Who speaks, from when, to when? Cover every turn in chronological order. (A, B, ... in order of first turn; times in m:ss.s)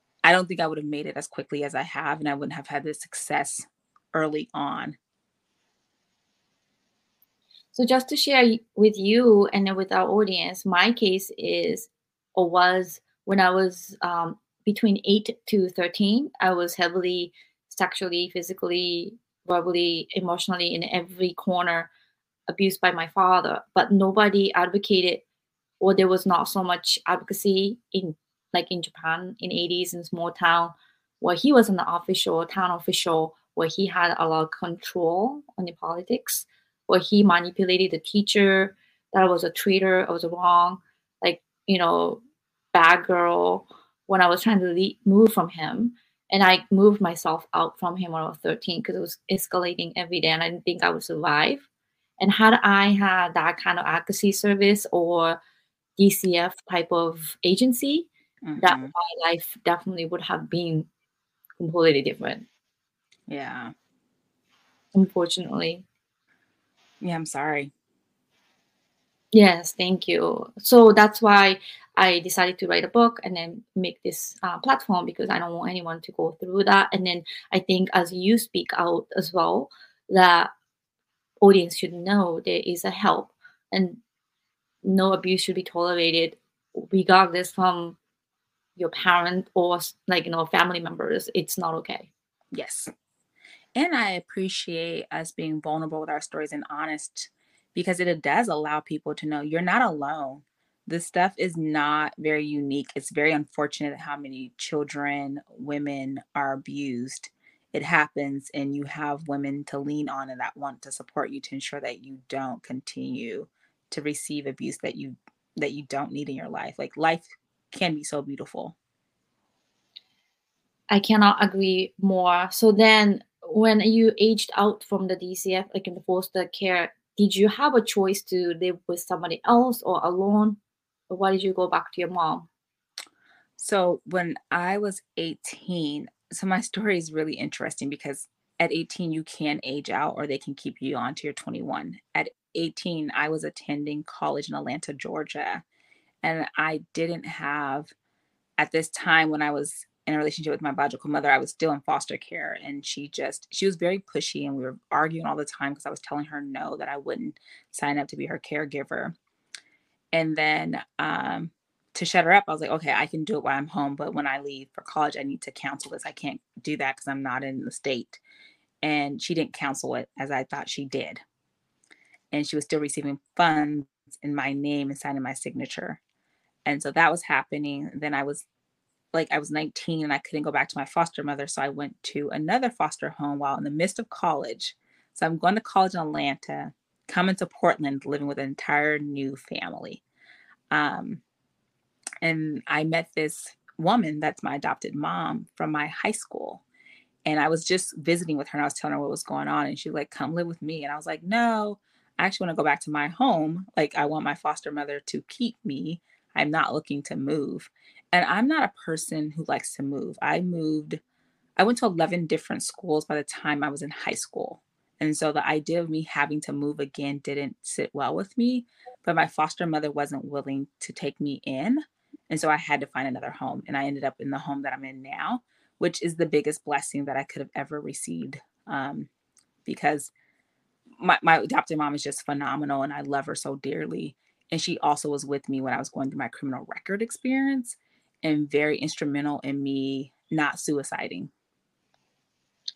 0:00.2-0:05.0 A
0:07.7-0:21.9 B
0:22.5-0:25.2 B
0:25.8-0:42.2 B
0:42.7-0:51.7 B
0:52.2-0:55.4 B
0:56.0-0:58.1 B
0:58.4-0:58.9 A
0:58.6-1:00.9 B
1:01.6-1:02.4 B
1:03.3-1:03.7 A
1:04.9-1:05.8 B
1:07.0-1:07.7 A
1:09.3-1:20.5 B
1:21.4-1:24.0 B
1:24.8-1:28.0 B
1:28.8-1:32.1 B
1:32.5-1:32.9 A
1:33.7-1:58.8 A
2:00.9-2:10.6 B
2:11.1-2:12.5 B
2:13.6-2:25.6 A
2:26.2-2:27.9 A
2:28.6-2:39.2 A
2:40.1-2:48.2 A
2:48.8-2:51.2 A
2:52.3-2:56.0 A
2:56.6-2:58.4 A
2:59.1-3:10.0 A
3:10.7-3:11.2 A
3:12.2-3:16.6 A
3:17.3-3:31.0 A
3:31.6-3:49.1 A
3:49.7-3:50.1 A
3:51.0-4:01.3 A